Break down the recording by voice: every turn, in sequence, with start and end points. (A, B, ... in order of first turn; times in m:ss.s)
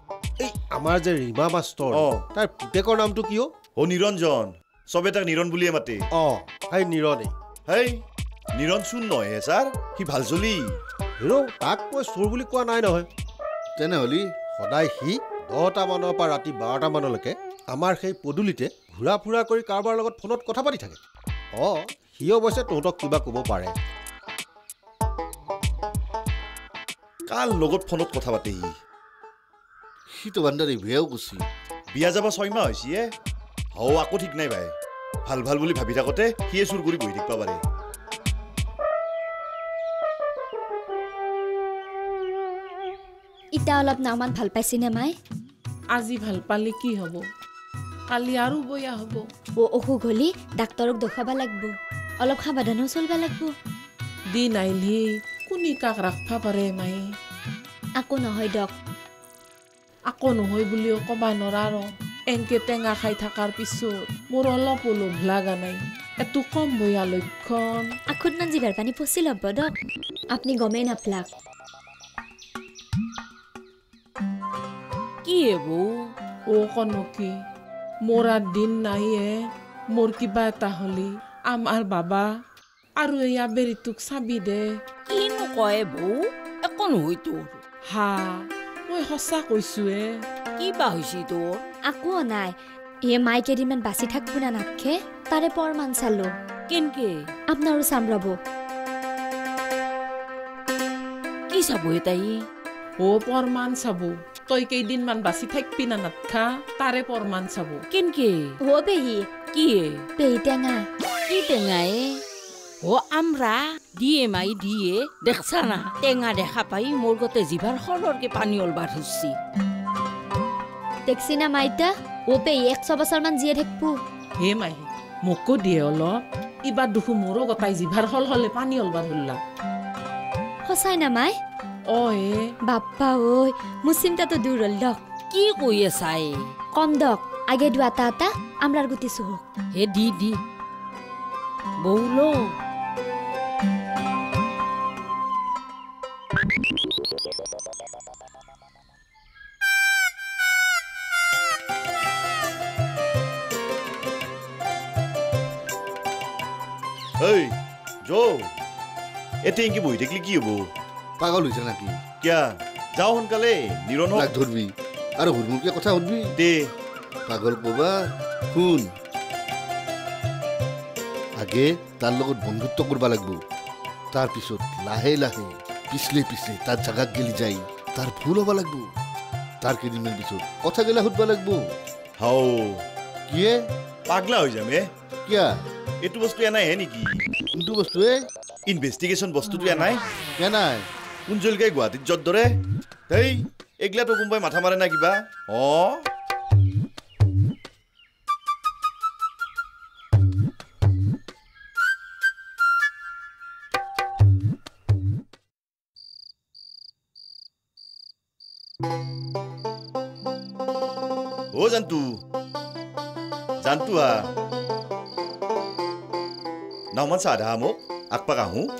0:00.4-0:03.5 A
0:01.9-0:02.2 B
0:03.8-0:06.0 B
0:06.1-0:07.3 A
0:07.7-0:08.0 B
0:08.6-0:10.6 B
0:11.2-0:13.1 A
0:13.8-0:14.3 C
0:14.6-0:21.0 A
0:21.5-0:23.7 A
0:27.3-0:28.7 B
0:30.2-0:31.4 C
0:31.9-0:33.0 B
0:33.7-0:34.7 B
0:35.3-0:37.6 B
0:43.6-0:45.1 D
0:45.9-0:47.2 E
0:48.1-0:49.3 E
0:49.6-0:53.5 D
0:54.3-0:57.1 E
0:58.0-0:58.7 D
1:00.1-1:07.9 E
1:08.1-1:09.7 D
1:10.3-1:11.3 D
1:15.2-1:16.0 F
1:16.5-1:17.4 E
1:18.0-1:19.3 E
1:19.9-1:22.3 E
1:23.0-1:24.7 E
1:25.1-1:27.6 F
1:27.9-1:30.1 E
1:30.6-1:31.6 F
1:31.9-1:36.3 D
1:36.7-1:37.3 F
1:37.5-1:38.3 D
1:41.5-1:42.4 F
1:43.0-1:47.8 E
1:47.9-1:48.6 F
1:48.6-1:49.3 D
1:49.5-1:50.0 F
1:50.2-1:50.8 D
1:51.3-1:52.2 F
1:52.8-1:59.4 F
2:01.0-2:04.0 D
2:04.4-2:09.4 E
2:10.6-2:11.3 D
2:11.9-2:12.4 E
2:12.7-2:15.0 D
2:15.3-2:16.3 F
2:16.7-2:19.4 D
2:19.7-2:20.4 F
2:21.8-2:22.5 F
2:37.2-2:37.5 B
2:38.0-2:38.5 B
2:39.4-2:40.6 B
2:41.2-2:42.0 C
2:43.0-2:44.3 B
2:44.1-2:46.3 C
2:46.4-2:46.6 B
2:47.3-2:48.0 C
2:48.5-2:48.8 C
2:51.4-2:53.4 C
2:54.1-2:58.8 C
2:59.6-3:01.6 C
3:02.2-3:02.8 B
3:03.3-3:03.6 C
3:04.1-3:04.8 B
3:06.0-3:07.1 B
3:07.6-3:08.1 C
3:08.7-3:10.0 B
3:10.4-3:10.8 C
3:11.3-3:12.4 B
3:13.1-3:15.9 B
3:31.5-3:32.0 B
3:33.6-3:34.1 B
3:36.9-3:38.7 B